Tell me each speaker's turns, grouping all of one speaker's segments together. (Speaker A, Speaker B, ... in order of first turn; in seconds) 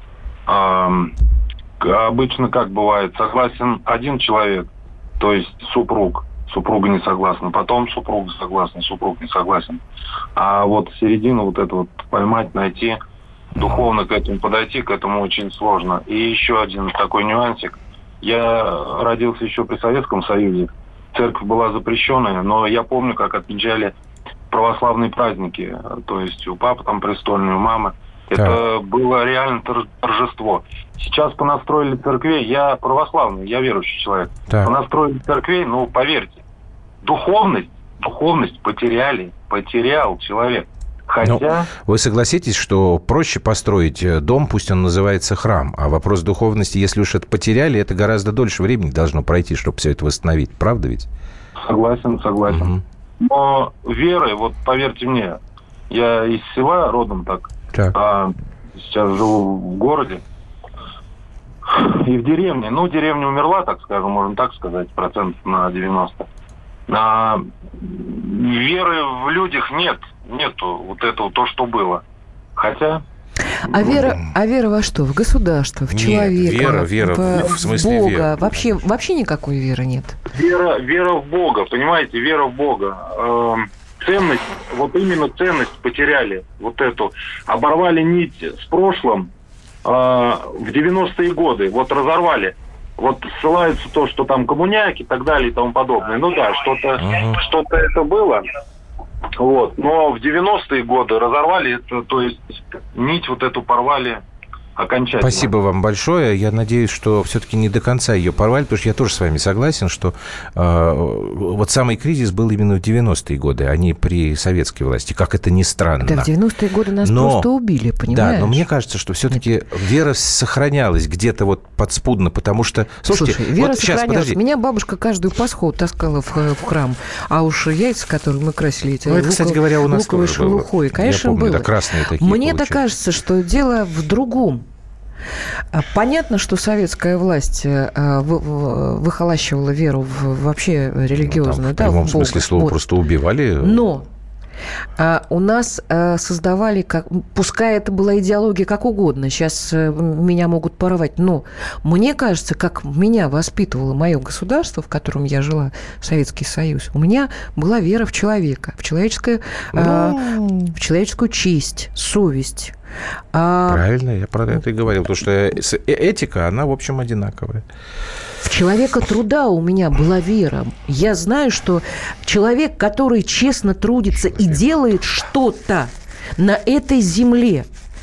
Speaker A: 0.5-1.1, 1.8-9.8, 10.4-13.0, 13.6-23.9, 24.5-36.4, 37.0-41.7, 51.6-55.4, 55.9-60.2, 61.7-66.3, 66.9-72.0, 72.6-73.0, 80.3-89.3, 89.8-98.4, 99.4-104.2, 104.8-105.5
Speaker B: 41.2-51.1, 52.5-52.8, 75.9-78.4, 97.0-97.4, 105.2-116.3, 117.0-117.5, 118.1-124.4, 129.1-132.8, 141.1-143.9, 159.7-160.6, 163.7-167.7
Speaker C: 73.6-80.2, 116.0-118.7, 123.1-134.7, 135.7-142.8, 143.6-144.1, 145.0-162.8, 163.3-163.8, 168.4-177.7